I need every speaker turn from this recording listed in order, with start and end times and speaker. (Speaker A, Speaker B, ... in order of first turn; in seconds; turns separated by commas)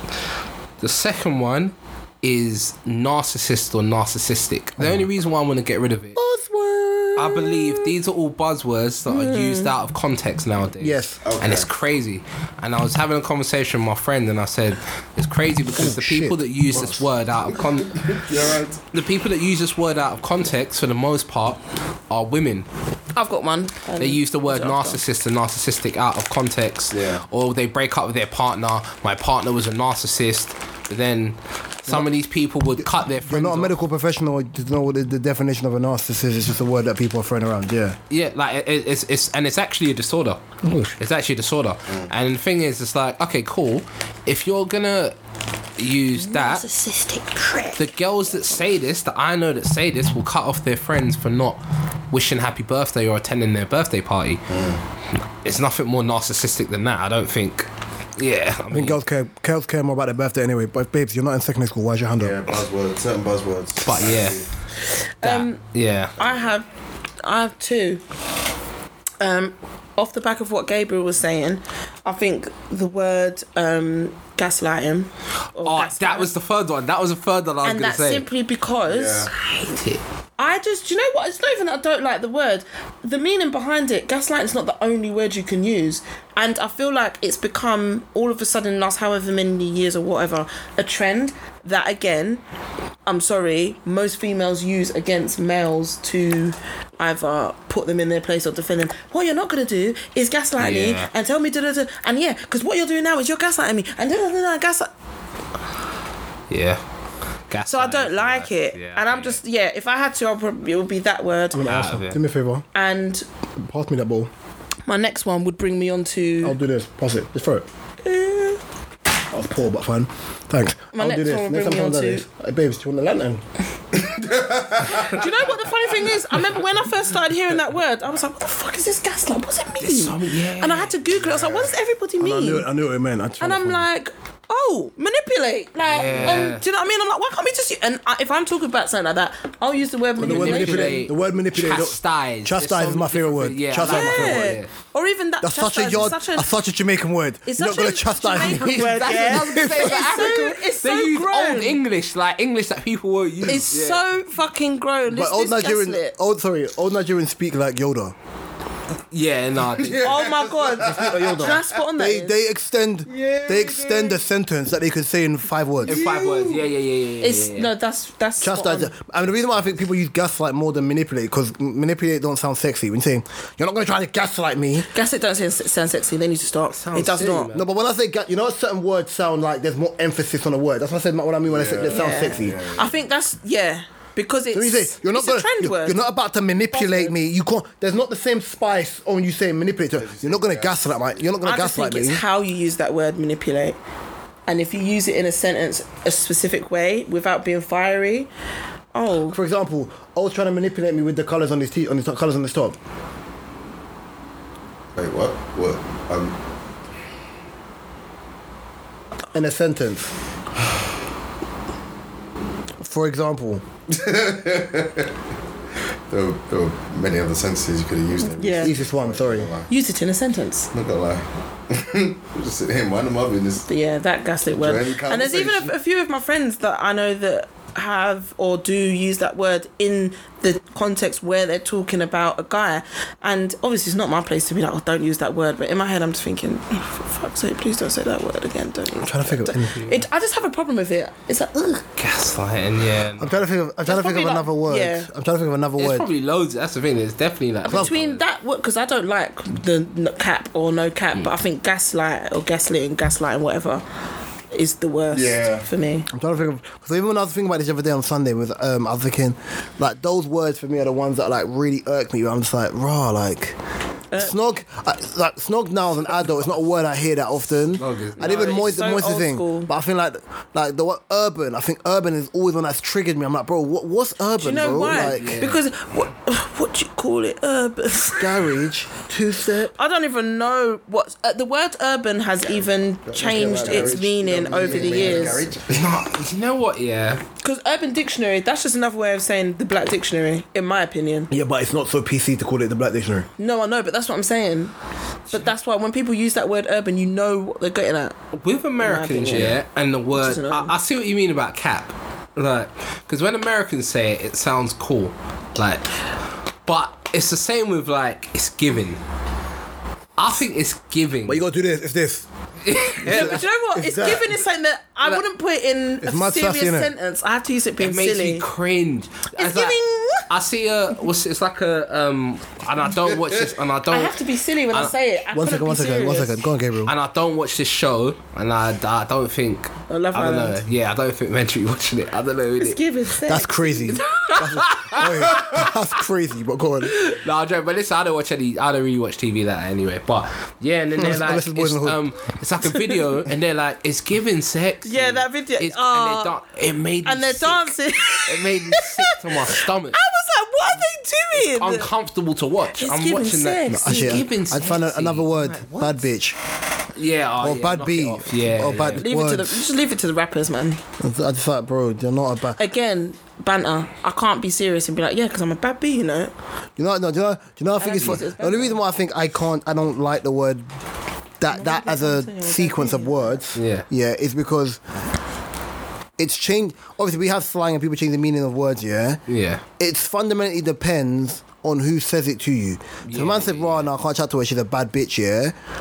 Speaker A: 0.8-6.2, Speaker B: 4.8-5.1, Speaker B: 6.2-7.9, Speaker A: 7.2-18.3, Speaker C: 9.1-9.7, Speaker B: 10.8-11.2, Speaker D: 11.2-11.7, Speaker B: 15.7-17.0, Speaker D: 17.9-18.8, Speaker A: 18.9-22.7, Speaker C: 23.1-25.0, Speaker A: 24.0-33.7, Speaker D: 26.9-27.2, Speaker B: 33.2-38.0, Speaker A: 38.1-40.4, Speaker B: 40.6-41.0, Speaker A: 41.0-45.1, Speaker A: 45.8-46.6, Speaker C: 46.2-47.8, Speaker A: 47.8-51.6, Speaker A: 52.1-54.4, Speaker D: 54.5-54.8, Speaker A: 55.4-59.0, Speaker B: 58.7-62.4, Speaker D: 62.2-64.5, Speaker A: 63.8-64.5, Speaker C: 65.2-65.6, Speaker A: 65.2-66.2, Speaker C: 66.2-66.7, Speaker C: 67.2-68.0, Speaker C: 69.2-76.3, Speaker A: 75.6-78.2, Speaker C: 77.6-79.3, Speaker D: 78.9-79.3, Speaker A: 79.5-80.0, Speaker C: 80.4-92.4, Speaker C: 93.1-104.9, Speaker A: 100.6-101.1, Speaker A: 106.5-106.8, Speaker A: 107.5-109.4, Speaker C: 107.7-111.7, Speaker B: 111.5-112.7, Speaker A: 111.7-112.2, Speaker C: 112.7-113.2, Speaker B: 113.6-114.3, Speaker C: 114.9-116.6, Speaker B: 116.4-117.7, Speaker C: 118.0-118.6, Speaker B: 119.3-123.4, Speaker C: 120.9-122.2, Speaker D: 123.9-125.3, Speaker C: 124.8-132.7, Speaker A: 129.8-131.0, Speaker D: 131.2-131.7, Speaker B: 132.2-133.8, Speaker C: 133.4-141.1, Speaker A: 135.9-136.6, Speaker B: 140.2-144.6, Speaker A: 140.2-144.7, Speaker C: 143.8-146.5, Speaker B: 145.4-150.4, Speaker C: 147.5-151.8, Speaker A: 148.4-154.0, Speaker C: 153.5-156.1, Speaker B: 155.1-158.2, Speaker A: 159.1-160.0, Speaker D: 159.6-161.6, Speaker C: 160.0-162.4, Speaker B: 160.8-166.0, Speaker D: 163.1-164.2, Speaker A: 165.8-167.7, Speaker D: 165.9-166.6, Speaker C: 167.2-168.9, Speaker B: 168.4-174.9, Speaker C: 174.9-177.5, Speaker A: 176.7-177.7, Speaker B: 177.5-182.6, Speaker D: 181.4-183.0, Speaker C: 181.9-186.0, Speaker B: 184.5-192.2, Speaker C: 186.7-187.1, Speaker D: 189.9-191.3, Speaker C: 191.4-193.8, Speaker C: 194.5-198.3, Speaker C: 198.9-199.4, Speaker B: 199.3-202.8, Speaker D: 205.0-206.4, Speaker B: 209.3-210.1, Speaker B: 212.8-213.6, Speaker D: 213.9-215.1, Speaker D: 216.1-219.7, Speaker C: 218.3-218.8, Speaker B: 218.6-219.5, Speaker C: 219.7-220.7, Speaker D: 220.7-223.7, Speaker C: 223.7-241.9, Speaker D: 224.5-225.7, Speaker B: 239.0-239.8, Speaker A: 242.0-243.4, Speaker B: 243.2-246.1, Speaker C: 243.9-245.1, Speaker A: 245.8-248.2, Speaker C: 247.7-253.8, Speaker B: 247.7-247.9, Speaker C: 254.5-256.1, Speaker D: 255.1-255.7, Speaker B: 256.1-263.6, Speaker B: 264.2-275.4, Speaker A: 267.8-268.7, Speaker C: 268.2-269.7, Speaker C: 274.4-278.5, Speaker A: 274.6-275.6, Speaker B: 278.2-279.7, Speaker C: 279.7-285.5, Speaker D: 283.1-286.1, Speaker B: 283.2-285.5, Speaker A: 285.7-287.2, Speaker C: 287.4-291.3, Speaker B: 291.3-293.3, Speaker C: 293.4-294.8, Speaker C: 295.3-298.2, Speaker A: 298.4-305.9, Speaker C: 298.8-299.6, Speaker C: 300.1-300.7, Speaker A: 306.6-309.0, Speaker A: 310.2-311.4, Speaker B: 311.3-312.3, Speaker A: 312.6-313.5, Speaker B: 313.0-314.3, Speaker C: 313.0-318.5, Speaker B: 316.0-316.9, Speaker A: 317.8-324.2, Speaker C: 319.4-320.3, Speaker C: 323.9-326.4, Speaker B: 325.3-326.9, Speaker A: 326.9-332.8, Speaker C: 329.9-330.6, Speaker C: 332.6-334.4, Speaker B: 333.3-336.9, Speaker A: 334.2-335.6, Speaker A: 336.8-350.0, Speaker B: 340.9-342.0, Speaker C: 344.9-346.3, Speaker C: 347.1-351.9, Speaker A: 351.3-355.4, Speaker C: 352.8-354.3, Speaker B: 353.7-356.4, Speaker C: 355.4-356.0, Speaker A: 356.9-359.1, Speaker B: 357.4-359.7, Speaker C: 358.8-360.8, Speaker B: 361.0-362.6, Speaker C: 362.6-366.3, Speaker B: 366.8-370.7, Speaker C: 367.8-368.8, Speaker B: 371.4-374.8, Speaker C: 371.5-373.4, Speaker A: 373.6-373.9, Speaker B: 376.2-379.2, Speaker A: 379.3-379.6, Speaker B: 379.8-385.6, Speaker A: 383.1-383.9